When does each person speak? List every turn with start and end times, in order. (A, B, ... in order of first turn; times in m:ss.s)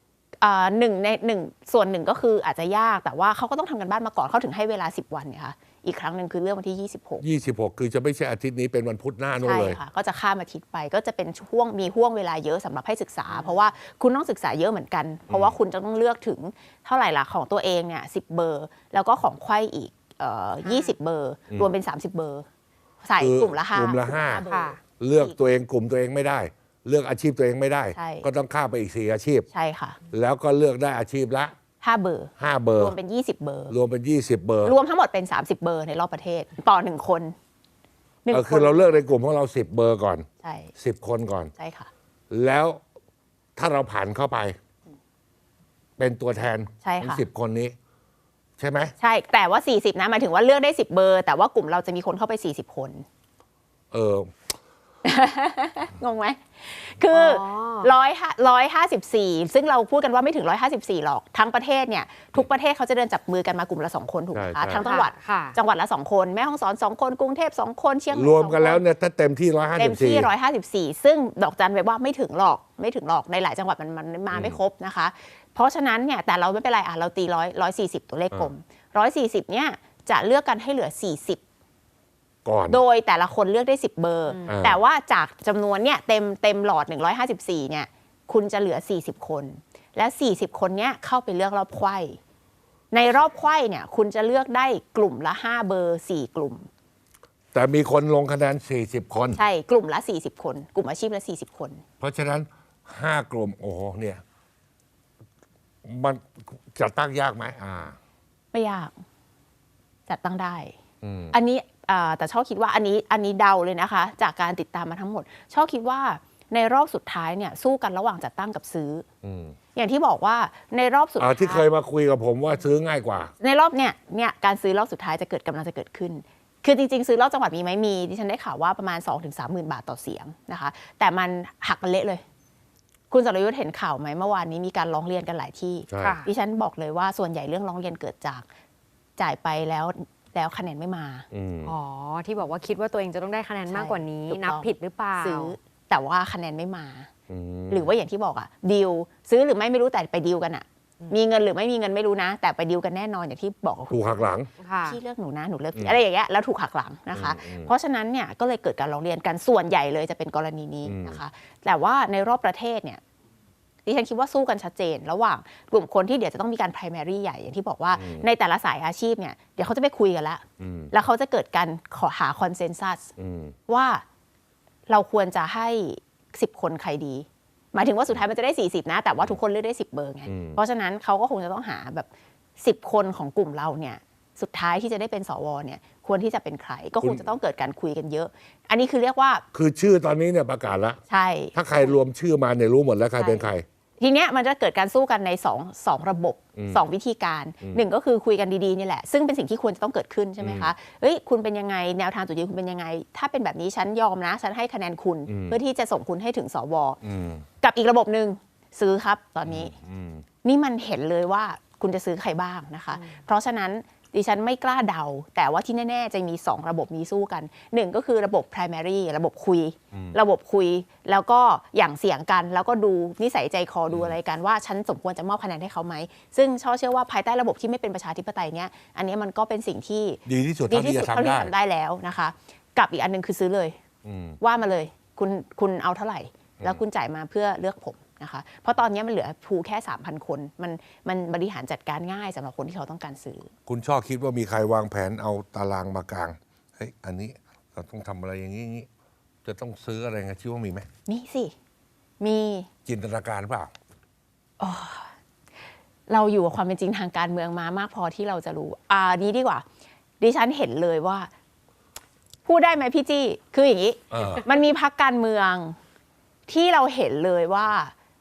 0:00.4-0:07.2 A
0:07.2-0:09.8 B
0:09.4-0:22.5 A
0:15.3-0:15.5 B
0:20.6-0:20.9 C
0:23.0-0:25.4 A
0:23.2-0:24.4 B
0:24.5-0:24.8 C
0:25.0-0:29.5 B
0:28.0-0:28.3 A
0:29.5-0:30.0 A
0:30.1-0:31.6 B
0:31.8-0:33.7 A
0:32.4-0:33.0 B
0:33.7-0:34.8 B
0:34.6-0:37.4 A
0:38.2-0:39.0 A
0:38.3-0:41.5 B
0:40.4-0:40.7 A
0:41.6-0:41.9 A
0:42.3-0:42.8 B
0:43.6-0:44.6 B
0:46.0-0:47.8 B
0:46.8-0:47.2 A
0:48.6-0:48.9 B
0:49.0-0:53.1 A
0:53.9-0:54.3 B
0:55.0-1:08.8 A
0:57.1-0:57.9 C
1:04.3-1:04.8 B
1:04.7-1:05.6 C
1:08.1-1:10.3 B
1:09.8-1:21.4 A
1:14.3-1:14.6 B
1:22.4-1:22.8 B
1:22.7-1:32.2 A
1:24.3-1:24.6 C
1:24.5-1:24.8 B
1:32.9-1:36.7 A
1:37.5-1:39.4 B
1:39.4-1:41.8 A
1:42.0-1:44.2 B
1:45.8-1:48.0 B
1:48.5-1:49.0 A
1:50.1-1:50.8 A
1:51.0-1:51.4 B
1:51.3-1:59.1 A
1:59.2-1:59.6 B
1:59.7-2:01.7 A
2:01.2-2:03.3 B
2:03.4-2:12.2 A
2:13.1-2:18.5 A
2:15.9-2:16.2 B
2:16.0-2:16.3 C
2:19.2-2:21.3 A
2:21.3-2:21.7 B
2:21.6-2:25.6 C
2:23.7-2:27.1 A
2:27.3-2:27.9 B
2:27.7-2:34.2 A
2:33.9-2:34.5 B
2:34.6-2:35.0 C
2:34.8-2:43.0 A
2:37.1-2:37.7 B
2:40.8-2:41.2 B
2:43.9-2:53.1 A
2:47.9-2:48.2 B
2:50.6-2:50.9 B
2:53.2-2:53.6 B
2:53.7-2:54.0 A
2:54.9-3:02.1 A
3:00.3-3:00.6 B
3:02.6-3:09.4 A
3:07.0-3:07.3 B
3:09.5-3:11.0 B
3:11.1-3:12.0 A
3:11.5-3:13.7 B
3:13.2-3:27.0 A
3:16.6-3:16.8 B
3:20.4-3:20.7 B
3:25.3-3:25.6 B
3:27.0-3:27.4 B
3:27.6-3:29.8 A
3:29.4-3:30.2 B
3:30.4-3:53.8 A
3:43.9-3:44.2 B
3:50.3-3:51.5 B
3:54.0-3:54.4 B
3:54.4-4:03.5 A
4:03.7-4:08.9 B
4:09.4-4:10.9 B
4:11.1-4:11.6 A
4:12.2-4:12.7 A
4:12.9-4:13.7 B
4:14.6-4:15.1 A
4:16.1-4:19.6 A
4:20.2-4:21.3 A
4:22.4-4:25.8 A
4:24.1-4:24.4 B
4:26.5-4:27.9 A